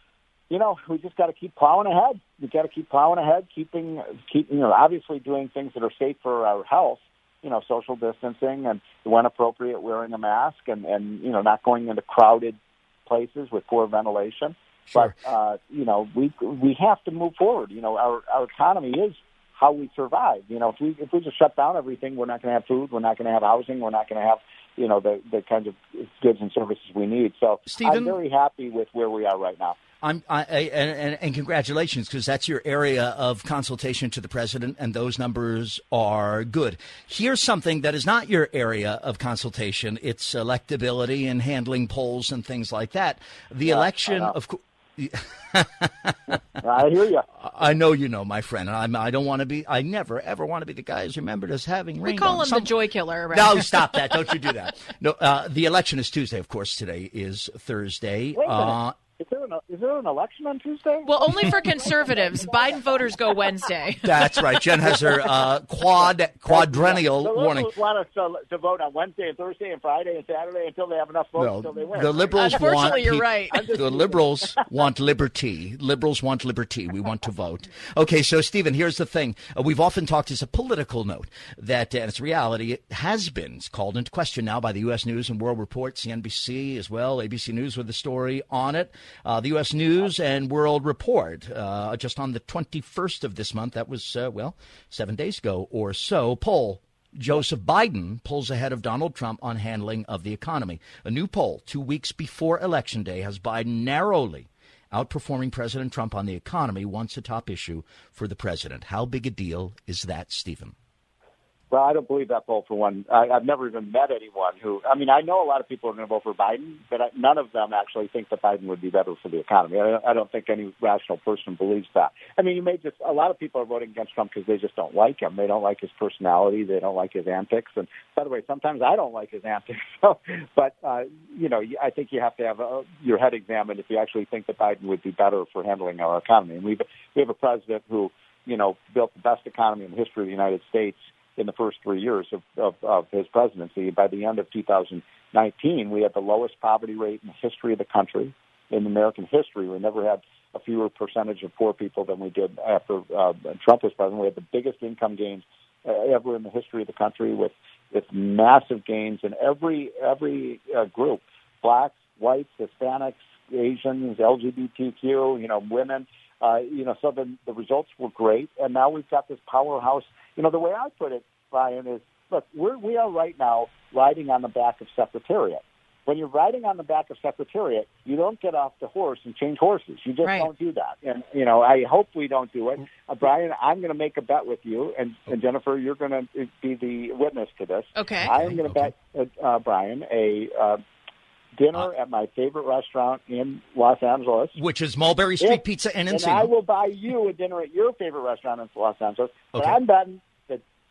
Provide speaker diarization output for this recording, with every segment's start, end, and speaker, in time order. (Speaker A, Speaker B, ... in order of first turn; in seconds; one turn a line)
Speaker A: 0.5-29.8
Speaker B: 14.9-15.1
Speaker B: 27.7-28.2
Speaker B: 30.0-46.4
Speaker A: 43.6-44.3
Speaker A: 46.6-47.3
Speaker B: 47.4-52.7
Speaker C: 52.0-54.3
Speaker B: 53.3-59.0
Speaker A: 58.4-63.4
Speaker C: 61.0-64.3
Speaker B: 64.0-67.7
Speaker A: 64.9-65.2
Speaker A: 66.5-74.5
Speaker B: 71.4-110.8
Speaker C: 72.3-73.8
Speaker A: 111.7-190.8
Speaker C: 180.2-180.5
Speaker C: 187.9-188.3
Speaker B: 188.3-188.9
Speaker A: 191.6-194.6
Speaker B: 194.5-196.5
Speaker A: 195.4-200.6